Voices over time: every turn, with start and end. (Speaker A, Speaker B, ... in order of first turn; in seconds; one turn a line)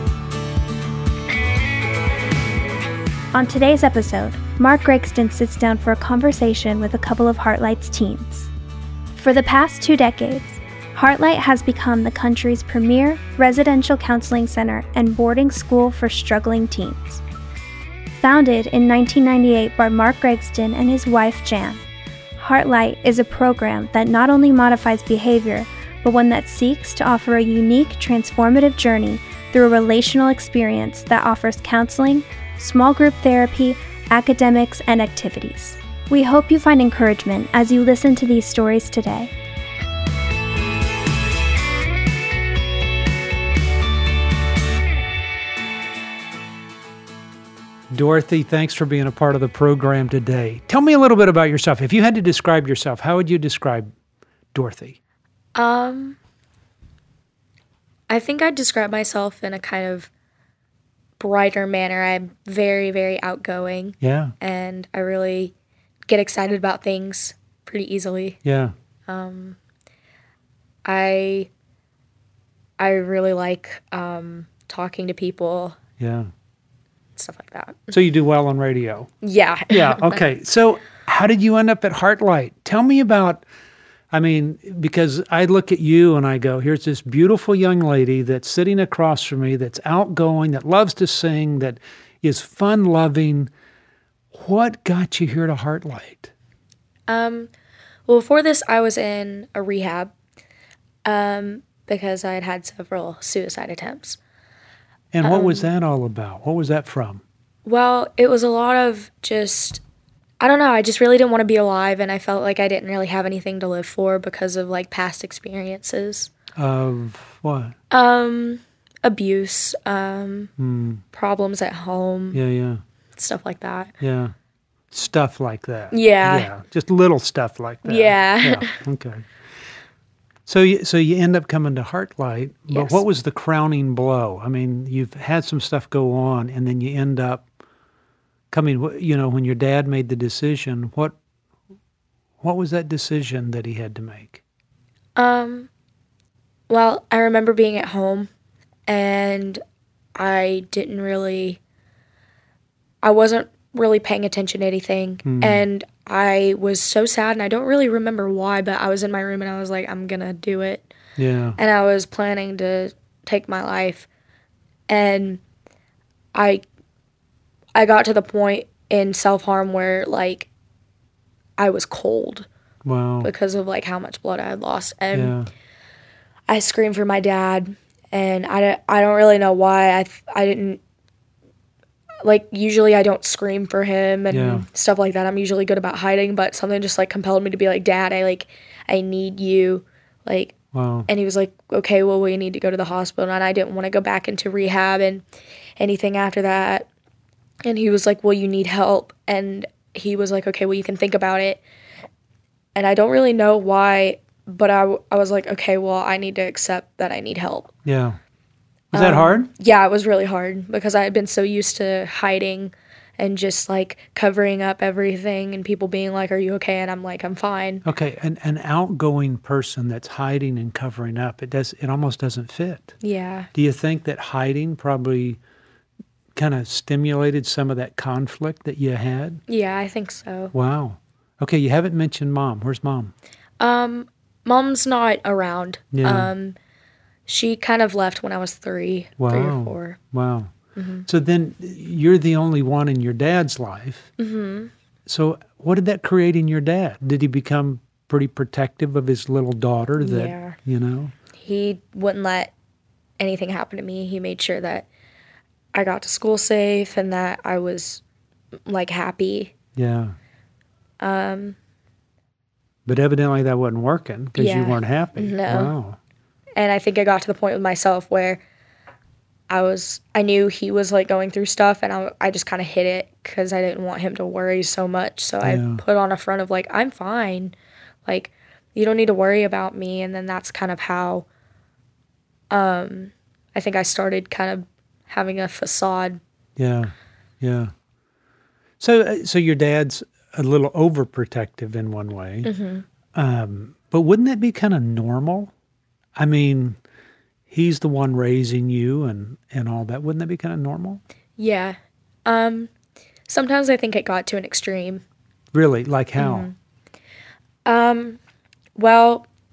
Speaker A: 3.3-8.5
Speaker A: 9.1-17.2
Speaker A: 18.1-21.8
Speaker A: 22.4-39.3
Speaker B: 47.9-53.9
Speaker B: 54.5-55.0
Speaker C: 55.5-56.2
Speaker C: 58.1-60.1
Speaker C: 61.2-65.5
Speaker B: 64.0-64.3
Speaker C: 66.1-68.4
Speaker B: 68.4-68.7
Speaker C: 69.1-69.6
Speaker C: 70.8-71.5
Speaker C: 72.8-75.8
Speaker B: 76.0-76.3
Speaker C: 77.2-77.9
Speaker B: 77.9-79.1
Speaker C: 79.2-80.2
Speaker B: 79.7-83.4
Speaker B: 84.1-93.5
Speaker B: 94.3-96.3
Speaker C: 97.1-97.5
Speaker C: 98.1-100.1
Speaker C: 101.0-104.2
Speaker B: 105.1-107.2
Speaker C: 105.2-105.7
Speaker C: 107.7-109.8
Speaker C: 110.4-116.3
Speaker B: 116.6-117.8
Speaker C: 117.9-120.5
Speaker B: 120.6-121.0
Speaker C: 121.1-122.4
Speaker B: 122.3-122.8
Speaker C: 123.2-123.9
Speaker B: 124.0-124.3
Speaker B: 124.9-129.3
Speaker C: 125.9-126.5
Speaker C: 127.8-128.8
Speaker B: 130.5-137.5
Speaker C: 132.7-133.0
Speaker B: 138.5-141.2
Speaker B: 142.4-144.4
Speaker C: 145.2-145.7
Speaker C: 146.7-148.3
Speaker C: 148.9-149.6
Speaker C: 150.2-151.6
Speaker C: 153.0-160.9
Speaker B: 155.2-155.6
Speaker B: 161.2-161.6
Speaker C: 161.6-164.1
Speaker C: 164.9-165.4
Speaker C: 166.3-166.6
Speaker C: 167.8-170.5
Speaker C: 171.6-172.5
Speaker B: 172.8-173.3
Speaker C: 173.2-175.4
Speaker B: 175.1-175.5
Speaker C: 176.5-180.8
Speaker C: 182.2-190.6
Speaker B: 184.3-184.7
Speaker B: 190.7-191.1
Speaker C: 191.1-195.2
Speaker C: 195.8-196.9
Speaker C: 197.7-201.6
Speaker C: 202.8-207.7
Speaker B: 207.8-208.2
Speaker C: 208.9-217.8
Speaker B: 208.9-209.5
Speaker B: 217.8-223.0
Speaker C: 223.0-223.5
Speaker B: 223.5-225.4
Speaker B: 226.3-229.4
Speaker C: 229.5-230.5
Speaker B: 230.5-233.1
Speaker C: 233.6-236.6
Speaker B: 235.9-236.3
Speaker C: 237.3-240.0
Speaker B: 239.2-240.5
Speaker C: 240.8-241.1
Speaker B: 241.1-244.1
Speaker C: 244.2-244.7
Speaker B: 245.1-251.1
Speaker C: 250.0-250.6
Speaker C: 251.3-252.5
Speaker C: 253.2-254.9
Speaker C: 255.7-258.0
Speaker C: 258.7-259.5
Speaker B: 259.8-260.1
Speaker C: 261.0-261.6
Speaker B: 262.9-266.0
Speaker C: 264.4-265.8
Speaker C: 266.6-268.4
Speaker C: 269.5-277.5
Speaker B: 275.4-275.8
Speaker C: 278.1-281.2
Speaker C: 282.5-286.2
Speaker B: 286.6-287.7
Speaker B: 288.8-292.5
Speaker C: 292.4-292.9
Speaker B: 293.1-295.5
Speaker B: 296.2-296.8
Speaker B: 297.5-301.0
Speaker C: 301.4-302.7
Speaker C: 303.3-305.0
Speaker B: 305.5-306.5
Speaker C: 306.2-306.6
Speaker C: 307.6-308.2
Speaker C: 308.8-309.2